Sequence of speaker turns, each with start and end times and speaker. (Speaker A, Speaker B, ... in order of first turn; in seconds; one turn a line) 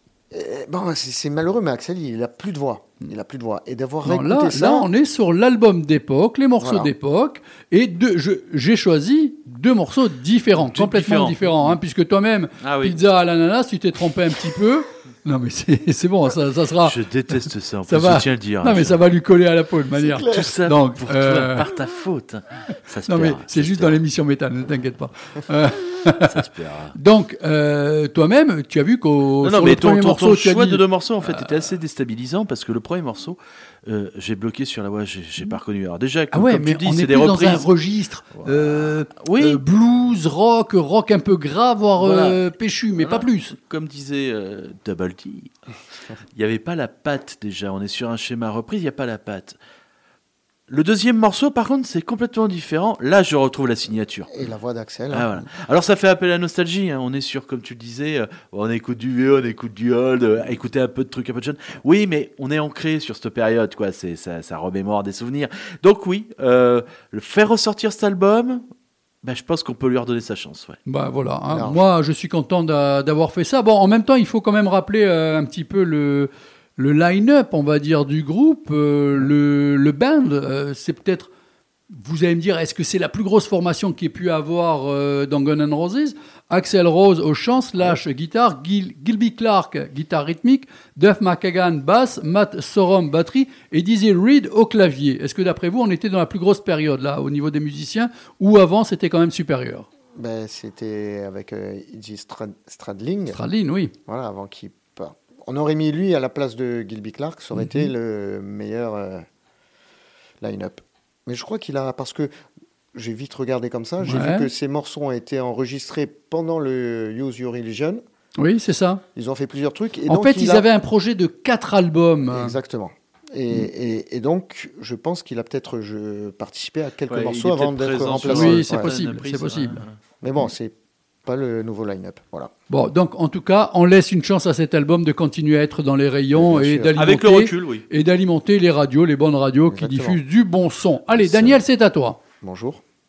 Speaker A: 0.3-4.9
Speaker B: 4.0-17.0
Speaker A: 6.6-6.9
Speaker C: 10.6-11.8
Speaker C: 12.6-13.0
Speaker C: 16.8-19.0
Speaker B: 17.9-21.7
Speaker A: 20.0-20.5
Speaker C: 20.3-24.0
Speaker B: 23.1-26.3
Speaker C: 26.3-26.9
Speaker B: 27.0-31.7
Speaker C: 29.4-37.7
Speaker B: 36.3-43.5
Speaker C: 38.4-39.6
Speaker C: 42.0-45.6
Speaker C: 46.4-49.6
Speaker C: 50.7-54.3
Speaker A: 54.3-55.5
Speaker C: 55.1-68.7
Speaker C: 69.2-70.8
Speaker B: 70.9-81.3
Speaker A: 71.5-71.8
Speaker B: 81.9-99.9
Speaker A: 100.2-103.4
Speaker B: 103.3-103.9
Speaker A: 104.1-109.3
Speaker B: 107.5-107.9
Speaker A: 110.4-112.3
Speaker A: 112.9-118.0
Speaker B: 114.0-114.5
Speaker B: 118.4-119.0
Speaker A: 119.2-120.7
Speaker B: 120.1-122.5
Speaker A: 122.3-128.9
Speaker C: 127.1-130.0
Speaker B: 128.3-129.8
Speaker A: 130.2-132.5
Speaker B: 132.7-142.2
Speaker A: 136.3-137.0
Speaker C: 137.0-137.8
Speaker A: 139.7-140.2
Speaker A: 141.2-141.6
Speaker A: 142.4-142.8